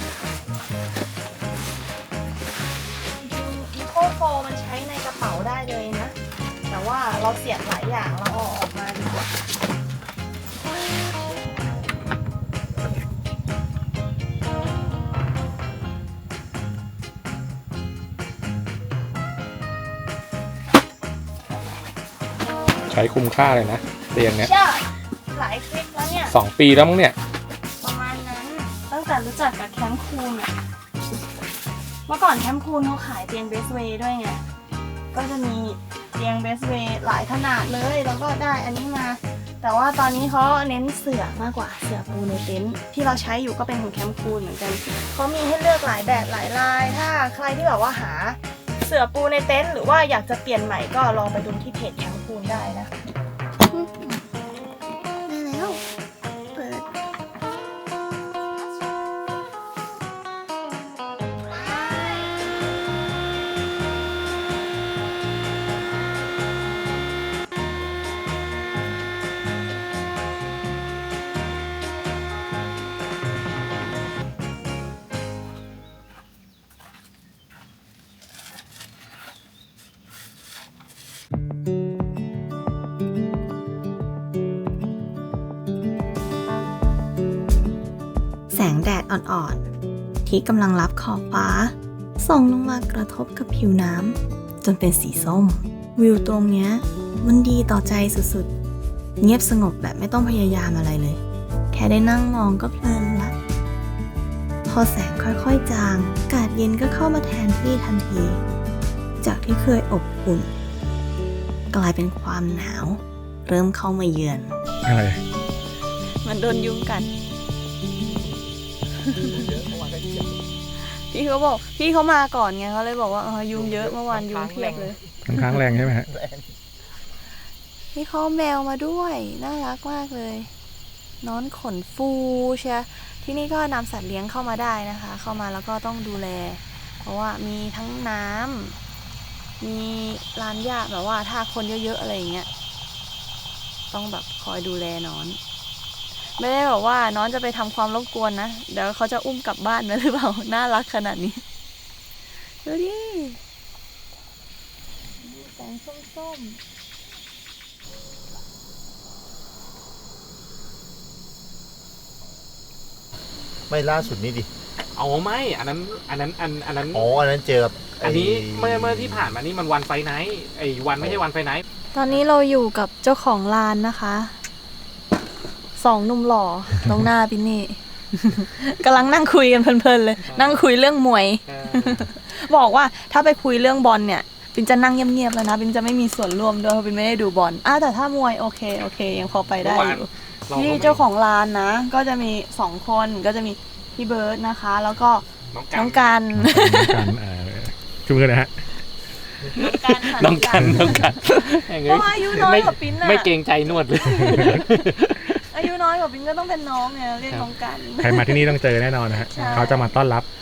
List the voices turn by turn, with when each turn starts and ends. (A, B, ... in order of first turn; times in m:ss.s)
0:03.2-0:06.1 A
0:06.7-0:09.4 A
0:22.9-0:24.5 B
0:24.4-0:26.3 A
0:26.3-0:27.2 B
0:27.8-0:30.5 A
0:32.1-0:34.4 A
0:35.1-0:52.9 A
0:53.7-0:54.2 A
0:55.2-0:55.8 A
0:56.6-0:56.9 A
1:01.6-1:02.0 A
1:28.5-1:29.6 C
1:30.2-1:38.5 C
1:39.2-1:41.2 C
1:41.7-1:43.3 C
1:44.7-1:48.4 C
1:49.2-1:50.5 C
1:51.7-1:54.6 C
1:54.8-1:55.2 B
1:56.2-1:57.1 A
1:59.2-2:00.4 D
2:01.0-2:05.0 A
2:03.5-2:06.5 D
2:05.3-2:06.1 B
2:07.9-2:10.5 A
2:11.2-2:18.8 A
2:19.6-2:22.5 A
2:23.9-2:25.4 A
2:26.4-2:31.4 A
2:32.6-2:33.4 A
2:35.2-2:36.6 A
2:43.7-2:44.5 D
2:45.0-2:47.1 E
2:46.9-2:49.3 D
2:48.0-2:51.6 E
2:51.0-2:51.2 D
2:51.9-2:54.3 A
2:55.8-3:17.1 A
3:00.3-3:00.6 E
3:01.5-3:02.1 E
3:09.6-3:11.1 E
3:15.5-3:16.1 E
3:16.4-3:18.5 B
3:19.5-3:25.4 E
3:19.6-3:23.3 A
3:24.0-3:24.6 A
3:25.3-3:29.9 A
3:28.0-3:30.3 B